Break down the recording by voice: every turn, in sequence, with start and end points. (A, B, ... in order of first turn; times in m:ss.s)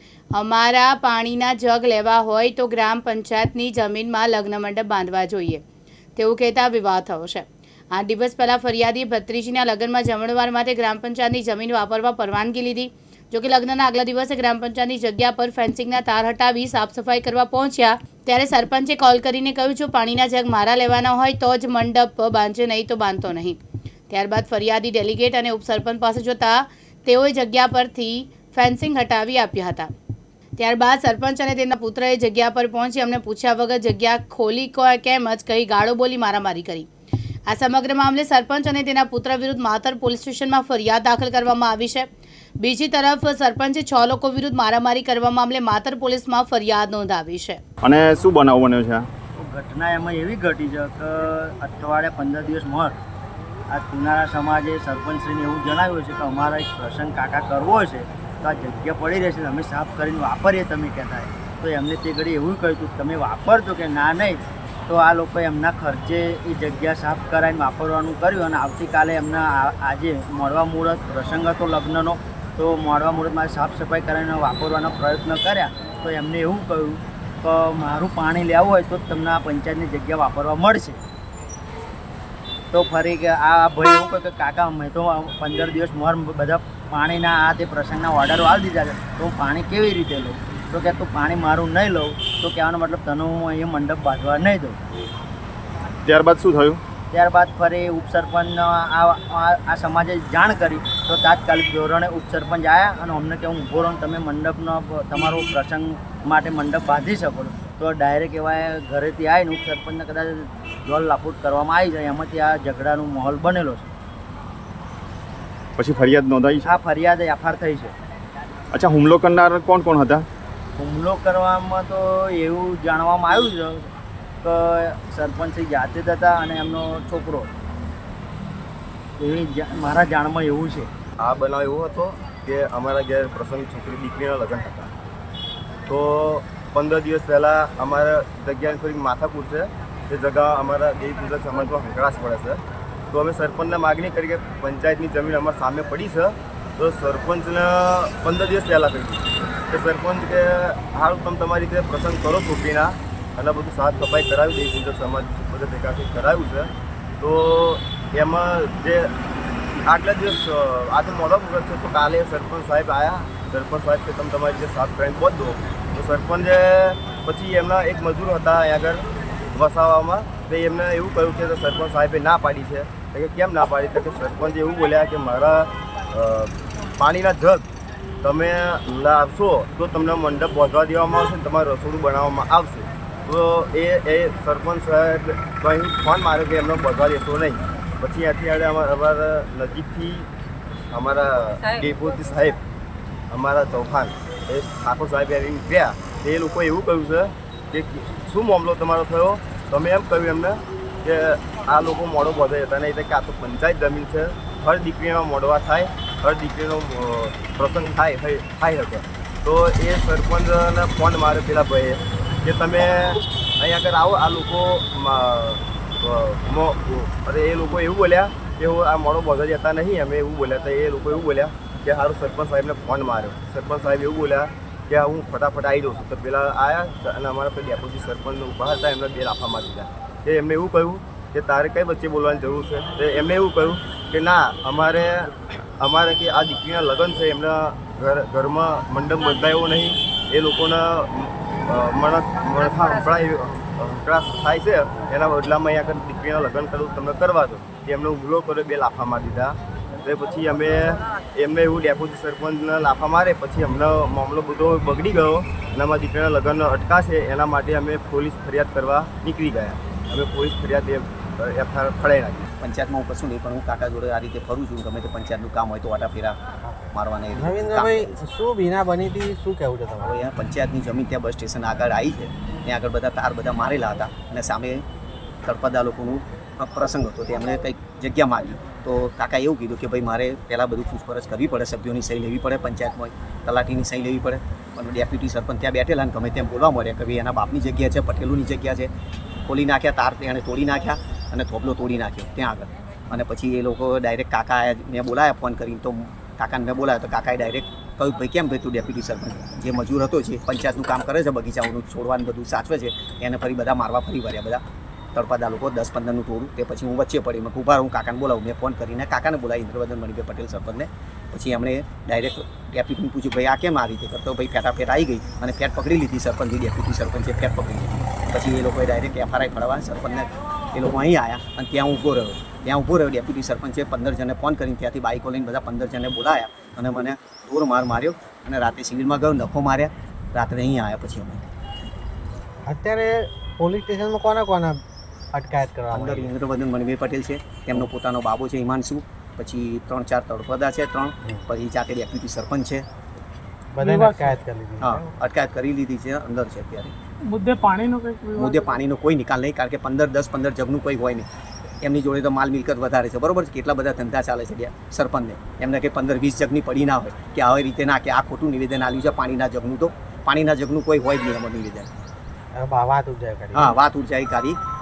0:00.4-0:05.6 A
0:06.2-0:23.6 A
0:24.1-0:29.9 A
0:30.6-0:36.9 A
0:37.5-0:42.1 A
0:42.6-0:47.6 A
0:47.8-0:49.1 B
0:49.4-0:53.0 C
0:53.7-1:21.0 C
1:22.7-1:34.8 C
1:36.0-1:36.8 B
1:37.1-1:53.9 C
1:55.8-1:56.7 B
1:56.7-1:58.0 C
1:58.7-2:00.3 B
2:00.8-2:03.9 C
2:04.4-2:07.5 C
2:09.2-2:10.9 C
2:11.2-2:14.9 D
2:15.9-2:22.6 D
2:23.1-2:39.1 D
2:39.9-2:57.7 D
2:58.2-3:10.3 D
3:10.9-3:12.6 D
3:13.3-4:22.5 D
4:22.6-4:26.4 E
4:26.7-4:30.1 F
4:26.9-4:28.2 E
4:30.0-4:34.8 E
4:35.4-4:48.9 E
4:49.5-5:04.6 E
5:05.2-5:31.4 E
5:32.7-5:36.3 F
5:35.9-5:42.8 E
5:43.7-5:45.1 F
5:43.8-5:44.4 G
5:44.8-5:47.0 E
5:47.3-5:48.6 G
5:48.4-5:51.3 E
5:51.8-6:01.9 E
6:02.6-6:03.7 F
6:03.6-6:04.6 E